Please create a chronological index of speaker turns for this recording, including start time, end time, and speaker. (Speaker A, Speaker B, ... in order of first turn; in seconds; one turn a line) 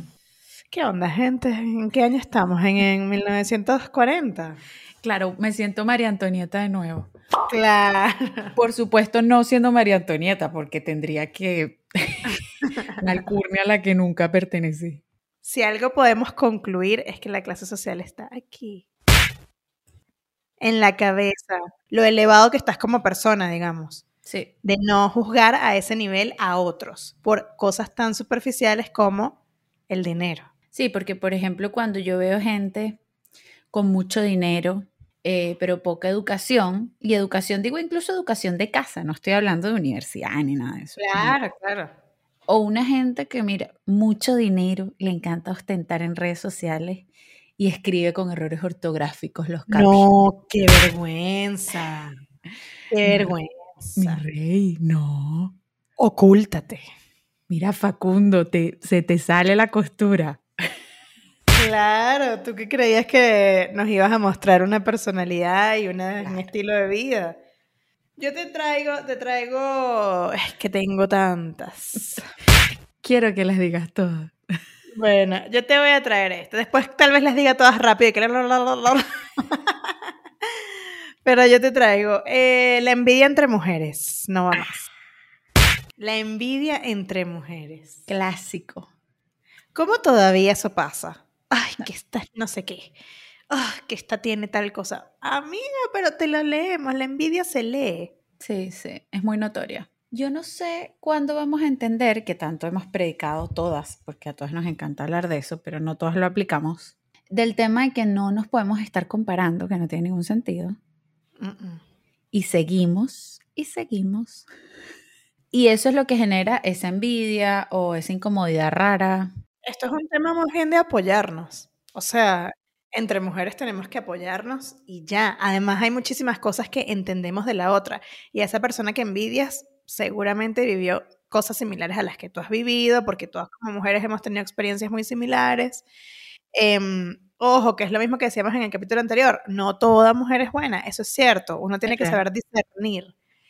Speaker A: 0.7-4.6
Speaker B: 5.0-7.1
Speaker A: 7.5-8.5
Speaker B: 8.6-12.4
Speaker B: 13.0-15.0
Speaker A: 15.4-18.9
Speaker A: 20.6-24.1
Speaker A: 24.6-29.4
Speaker A: 29.9-30.5
Speaker B: 30.7-33.0
Speaker B: 33.7-41.4
Speaker A: 41.0-41.9
Speaker B: 42.5-50.1
Speaker A: 49.7-52.1
Speaker A: 52.9-54.2
Speaker B: 53.0-53.3
Speaker B: 54.0-55.5
Speaker A: 56.0-56.8
Speaker B: 57.5-60.4
Speaker A: 61.5-67.4
Speaker B: 66.2-66.5
Speaker A: 68.2-72.2
Speaker B: 73.0-74.4
Speaker A: 75.0-80.0
Speaker A: 81.2-84.8
Speaker B: 84.5-84.8
Speaker A: 86.0-88.0
Speaker B: 88.1-88.9
Speaker A: 89.8-92.9
Speaker A: 93.5-98.1
Speaker B: 98.4-110.8
Speaker A: 111.4-111.8
Speaker B: 112.3-114.5
Speaker B: 115.5-119.3
Speaker A: 119.7-135.9
Speaker A: 136.5-143.1
Speaker B: 141.9-142.2